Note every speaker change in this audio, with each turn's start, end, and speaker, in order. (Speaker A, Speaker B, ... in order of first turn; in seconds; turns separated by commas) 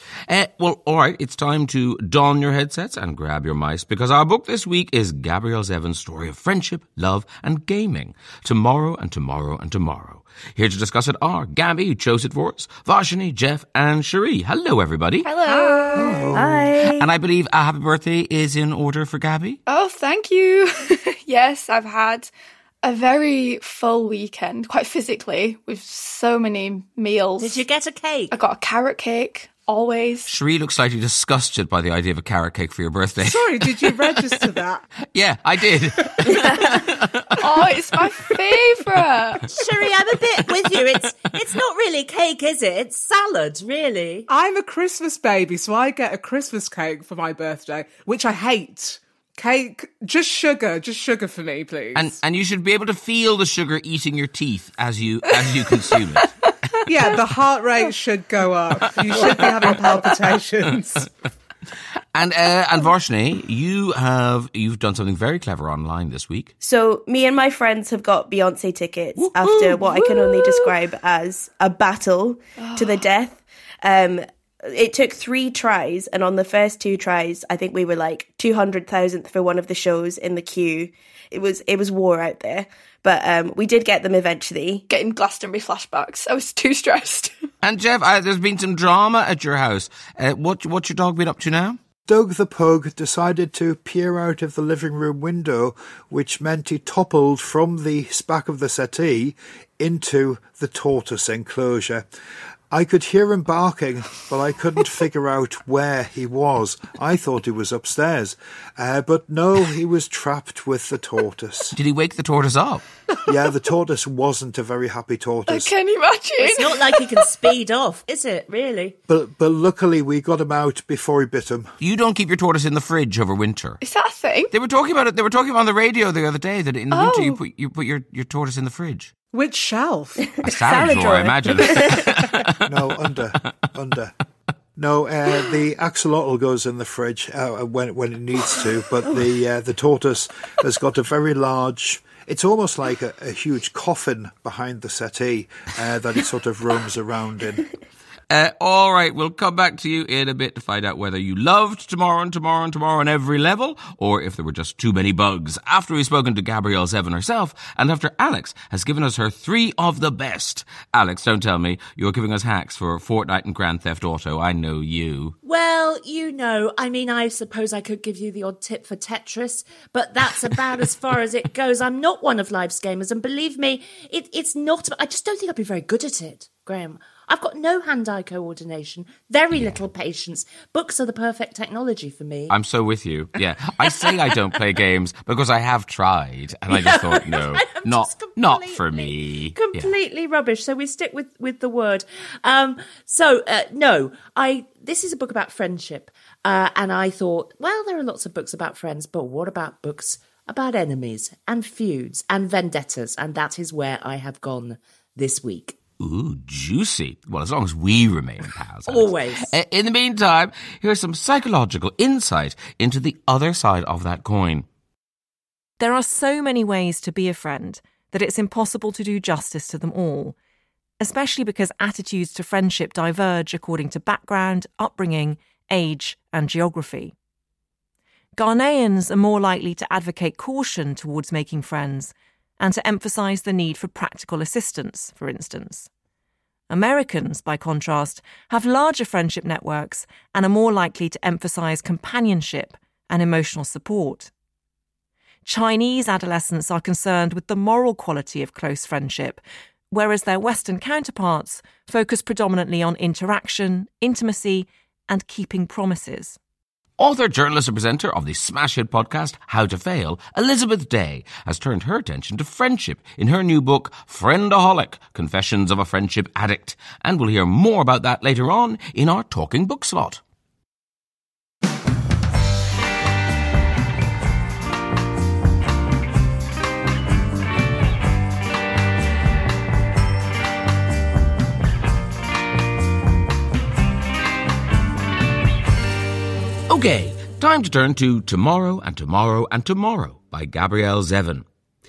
Speaker A: 0.3-15.3, Speaker B: 15.2-16.2, Speaker C: 15.5-16.3, Speaker A: 15.9-19.6, Speaker D: 16.4-17.1, Speaker B: 19.7-22.3, Speaker B: 22.8-27.6, Speaker E: 27.4-28.3, Speaker B: 28.3-30.3, Speaker A: 30.3-34.4, Speaker C: 33.2-34.8, Speaker A: 35.1-37.7, Speaker B: 36.3-36.8, Speaker B: 37.4-39.5, Speaker E: 39.5-44.3, Speaker C: 44.3-52.1, Speaker A: 52.0-56.3, Speaker C: 56.9-61.1, Speaker A: 58.8-60.0, Speaker A: 62.1-66.5, Speaker D: 66.6-84.8, Speaker A: 69.2-70.8, Speaker B: 72.6-73.1, Speaker B: 84.9-87.4, Speaker A: 87.6-91.8, Speaker F: 92.1-102.1, Speaker F: 102.7-111.7, Speaker A: 111.7-112.8, Speaker F: 113.3-115.7, Speaker B: 115.5-117.3, Speaker E: 116.4-119.0, Speaker F: 119.1-121.7, Speaker A: 121.8-123.8, Speaker B: 123.8-124.5, Speaker A: 124.5-129.1, Speaker B: 126.9-127.4, Speaker C: 129.3-132.0, Speaker A: 130.4-132.8, Speaker D: 131.1-131.5, Speaker F: 132.7-134.1, Speaker F: 134.8-147.7, Speaker A: 148.3-165.4, Speaker E: 165.4-182.6, Speaker A: 179.5-179.8, Speaker A: 182.5-189.9, Speaker E: 183.8-184.4, Speaker E: 186.7-205.8, Speaker A: 206.0-214.7, Speaker E: 208.9-209.5, Speaker G: 215.8-220.4, Speaker G: 221.0-227.2, Speaker G: 228.4-235.9, Speaker G: 236.7-244.3, Speaker G: 245.4-256.4, Speaker A: 257.0-270.2, Speaker A: 286.7-291.5